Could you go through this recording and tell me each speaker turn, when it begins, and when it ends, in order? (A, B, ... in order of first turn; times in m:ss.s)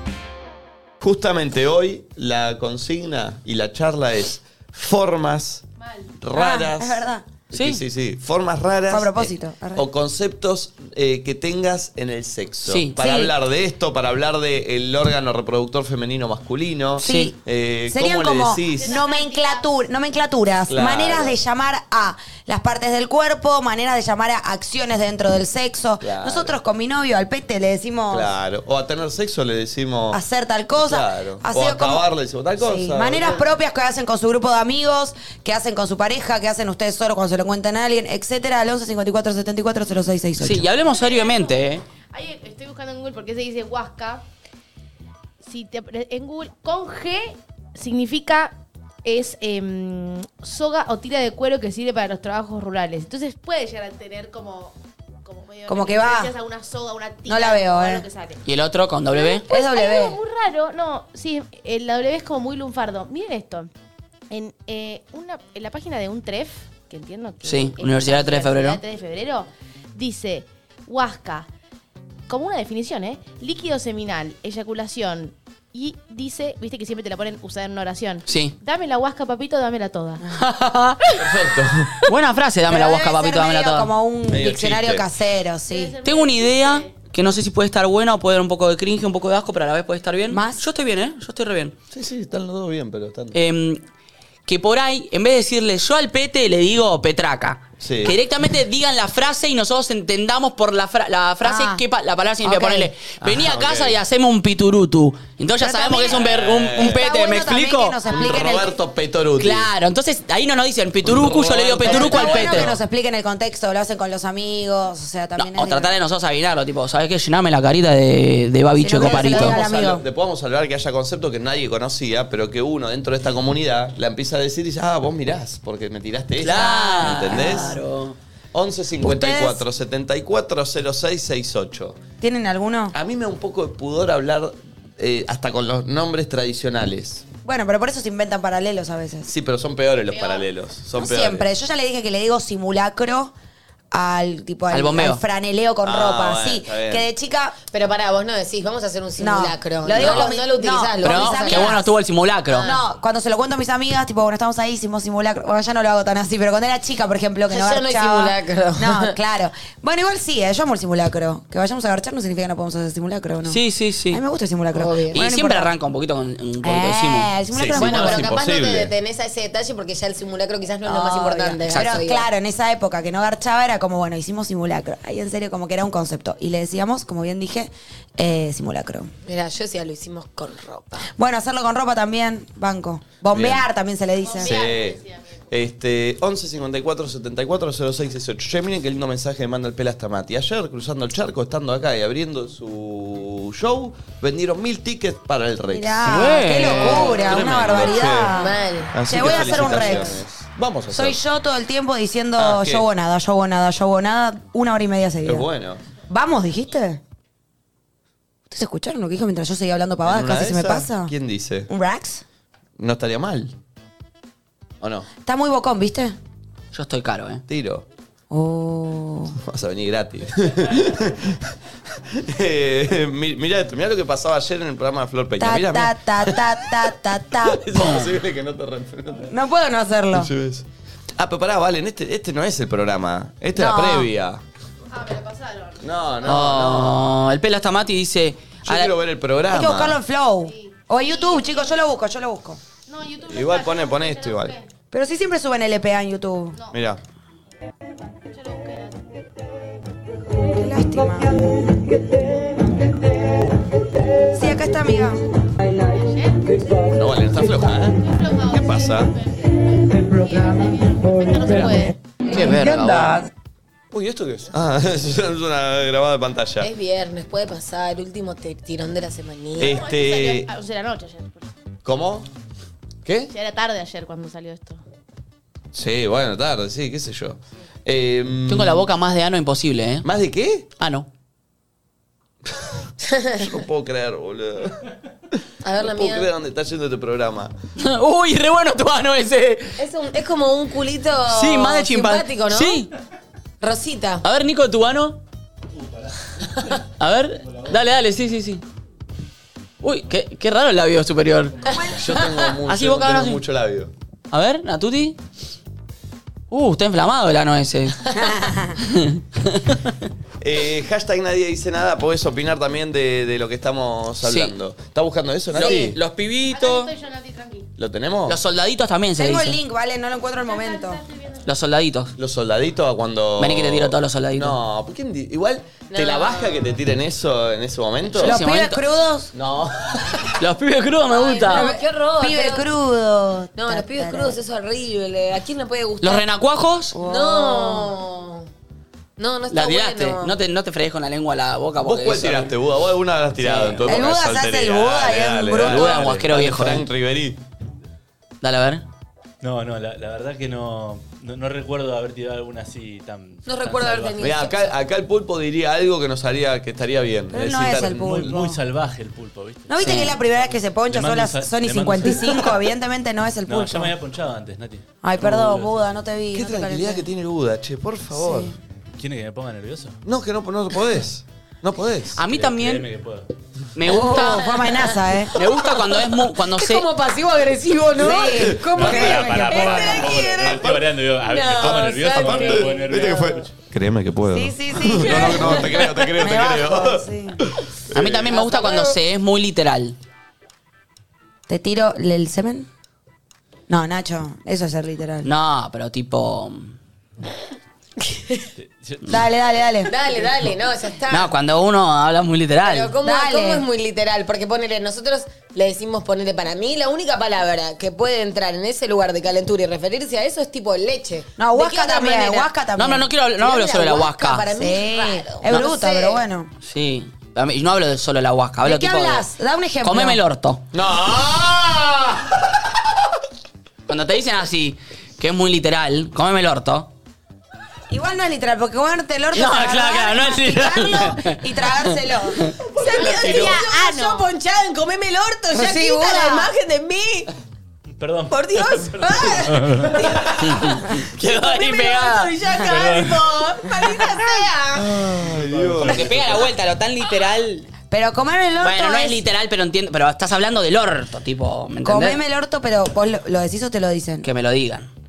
0:01.0-0:05.6 A
0:05.8-0:06.1 B
0:06.2-0:19.0 A
0:06.3-0:07.2 C
0:07.5-0:07.8 D
0:08.9-0:09.9 C
0:12.6-0:13.0 D
0:13.0-0:13.3 C
0:17.0-0:17.4 C
0:17.0-0:17.3 D
0:17.9-0:28.3 C
0:18.7-0:19.7 B
0:20.7-0:21.4 A
0:26.0-0:26.6 A
0:28.1-0:30.2 A
0:30.1-0:32.0 C
0:30.8-0:33.4 A
0:32.6-0:40.7 C
0:40.4-0:41.8 D
0:41.0-0:44.2 B
0:45.4-0:58.4 B
0:55.7-0:56.3 C
0:57.3-0:58.0 C
0:58.4-0:59.4 D
0:59.1-1:03.7 B
0:59.5-1:00.2 C
1:04.3-1:11.5 B
1:07.4-1:08.8 D
1:12.3-1:20.2 B
1:18.3-1:18.6 D
1:20.4-1:21.0 D
1:21.2-1:21.9 A
1:22.1-1:23.9 D
1:22.7-1:26.0 C
1:24.3-1:25.1 A
1:25.7-1:26.9 B
1:26.0-1:31.8 D
1:30.3-1:30.7 C
1:31.9-1:33.4 A
1:33.3-1:33.8 D
1:34.5-1:48.0 D
1:37.8-1:38.2 A
1:41.4-1:41.8 C
1:42.4-1:42.9 C
1:43.2-1:44.0 A
1:45.6-1:48.7 C
1:46.1-1:47.0 A
1:48.1-1:49.7 A
1:49.4-1:52.7 D
1:51.0-1:52.8 A
1:51.8-1:55.9 C
1:55.4-1:59.7 D
1:58.8-2:00.0 C
1:59.1-2:07.8 A
2:06.4-2:08.2 D
2:08.5-2:12.0 A
2:09.0-2:09.6 C
2:12.2-2:13.0 C
2:12.9-2:17.2 A
2:17.4-2:19.3 C
2:19.3-2:21.5 A
2:20.1-2:20.4 B
2:21.0-2:23.3 C
2:23.9-2:27.6 C
2:24.7-2:25.2 D
2:25.8-2:27.1 A
2:27.7-2:31.8 E
2:29.2-2:31.9 C
2:31.0-2:32.7 D
2:32.5-2:32.8 E
2:32.6-2:45.7 C
2:37.5-2:39.1 E
2:43.4-2:44.2 D
2:44.8-2:45.2 E
2:45.1-2:47.3 D
2:46.6-2:48.3 C
2:47.5-2:48.9 A
2:47.8-2:52.3 E
2:50.8-2:59.1 C
2:51.7-2:52.0 D
2:59.3-3:01.1 E
3:01.1-3:04.6 C
3:03.3-3:03.6 A
3:04.2-3:05.4 B
3:04.4-3:05.0 A
3:05.5-3:16.0 A
3:15.7-3:20.3 C
3:16.0-3:17.1 D
3:16.5-3:18.4 A
3:18.4-3:20.1 E
3:18.9-3:21.2 A
3:20.9-3:25.5 C
3:22.4-3:22.8 A
3:25.2-3:25.8 A
3:26.1-3:27.0 C
3:28.5-3:31.1 C
3:30.0-3:31.7 A
3:31.7-3:32.2 C
3:32.8-3:33.5 A
3:34.8-3:35.1 A
3:35.2-3:36.2 C
3:36.7-3:37.4 D
3:37.5-3:37.8 A
3:38.3-3:39.4 C
3:39.4-3:41.4 A
3:42.1-3:46.5 A
3:45.4-3:47.6 C
3:47.5-3:49.3 A
3:47.8-3:48.1 D
3:49.3-3:50.3 C
3:50.1-3:54.4 A
3:53.6-3:54.1 C
3:54.9-3:55.8 B
3:55.8-3:57.0 A
3:56.2-3:58.9 D
3:58.6-4:00.0 A
3:59.5-4:02.6 C
4:00.5-4:01.8 B
4:02.9-4:04.7 B
4:03.3-4:04.6 A
4:04.9-4:06.6 C
4:06.7-4:07.0 A
4:08.3-4:09.1 B
4:10.5-4:11.4 C
4:14.3-4:15.2 C
4:15.8-4:16.5 B
4:16.9-4:19.1 A
4:17.9-4:22.0 B
4:22.3-4:23.2 D
4:22.3-4:23.1 A
4:23.9-4:26.7 A
4:26.6-4:29.8 E
4:29.6-4:30.5 A
4:29.6-4:31.5 B
4:31.8-4:32.3 A
4:33.0-4:33.3 A
4:33.3-4:34.8 B
4:35.7-4:38.8 A
4:38.5-4:40.1 D
4:40.0-4:40.7 A
4:40.8-4:41.1 D
4:43.1-4:43.5 E
4:43.4-4:44.8 A
4:45.6-4:46.3 E
4:45.8-4:47.5 A
4:47.8-4:49.8 D
4:49.8-4:52.8 E
4:51.3-4:52.9 D
4:53.6-4:54.2 E
4:54.2-4:55.2 D
4:57.0-4:58.6 D
4:59.8-5:01.6 D
5:01.7-5:02.6 E
5:02.0-5:03.9 A
5:02.7-5:03.4 D
5:04.3-5:05.2 D
5:06.5-5:08.0 D
5:08.2-5:08.8 C
5:08.8-5:09.9 D
5:10.4-5:16.0 A
5:14.2-5:14.5 D
5:15.5-5:16.9 D
5:16.5-5:17.7 B
5:17.8-5:18.4 A
5:18.3-5:19.6 D
5:19.2-5:21.0 C
5:20.4-5:21.5 B
5:21.4-5:22.1 D
5:22.2-5:28.3 A
5:23.4-5:24.6 D
5:25.9-5:26.8 E
5:28.2-5:29.3 C
5:28.2-5:28.8 D
5:29.3-5:30.2 A
5:30.4-5:31.7 D
5:31.1-5:32.6 E
5:31.5-5:34.4 C
5:33.6-5:36.3 E
5:36.0-5:37.0 D
5:36.9-5:37.9 C
5:37.0-5:38.5 E
5:39.2-5:40.4 E
5:39.5-5:42.5 D
5:41.8-5:47.4 A
5:43.4-5:43.8 D
5:43.8-5:46.0 C
5:45.6-5:46.9 D
5:48.4-5:48.8 D
5:49.4-5:54.3 F
5:53.5-5:54.7 E
5:54.2-5:58.0 A
5:57.3-5:58.6 C
5:57.6-6:02.7 F
5:59.7-6:03.9 C
5:59.8-6:00.2 D
6:03.5-6:06.0 F
6:05.0-6:07.1 C
6:06.3-6:08.5 A
6:08.1-6:08.6 C
6:09.0-6:10.0 F
6:10.0-6:12.2 A
6:12.2-6:12.9 D
6:12.3-6:13.3 F
6:13.8-6:14.5 D
6:13.9-6:15.3 C
6:13.9-6:23.2 E
6:15.3-6:16.9 D
6:18.0-6:20.3 C
6:18.3-6:18.6 A
6:18.8-6:23.5 F
6:20.4-6:20.8 A
6:21.6-6:28.3 A
6:24.3-6:27.4 C
6:27.9-6:30.0 D
6:28.4-6:28.9 E
6:31.5-6:32.7 C
6:33.7-6:35.3 C
6:35.2-6:36.8 D
6:38.0-6:38.4 E
6:38.6-6:39.8 F
6:39.1-6:39.9 C
6:39.9-6:41.3 E
6:41.1-6:42.9 D
6:42.6-6:52.5 E
6:43.0-6:43.7 C
6:51.4-6:53.1 C
6:52.8-6:54.5 D
6:53.4-6:56.2 E
6:54.5-6:56.5 C
6:56.6-6:59.3 D
6:58.6-7:00.2 C
6:59.8-7:00.6 D
7:00.7-7:02.5 A
7:03.9-7:06.9 D
7:07.9-7:12.5 C
7:09.3-7:11.8 D
7:12.8-7:17.3 E
7:13.1-7:14.2 C
7:13.2-7:13.6 D
7:15.5-7:16.5 C
7:18.0-7:20.0 F
7:18.3-7:20.3 E
7:20.5-7:22.3 D
7:21.2-7:25.3 E
7:22.6-7:23.3 F
7:25.2-7:26.3 A
7:25.4-7:25.9 F
7:25.8-7:27.7 D
7:27.9-7:29.2 C
7:28.6-7:32.2 D
7:31.8-7:34.3 C
7:34.2-7:34.9 D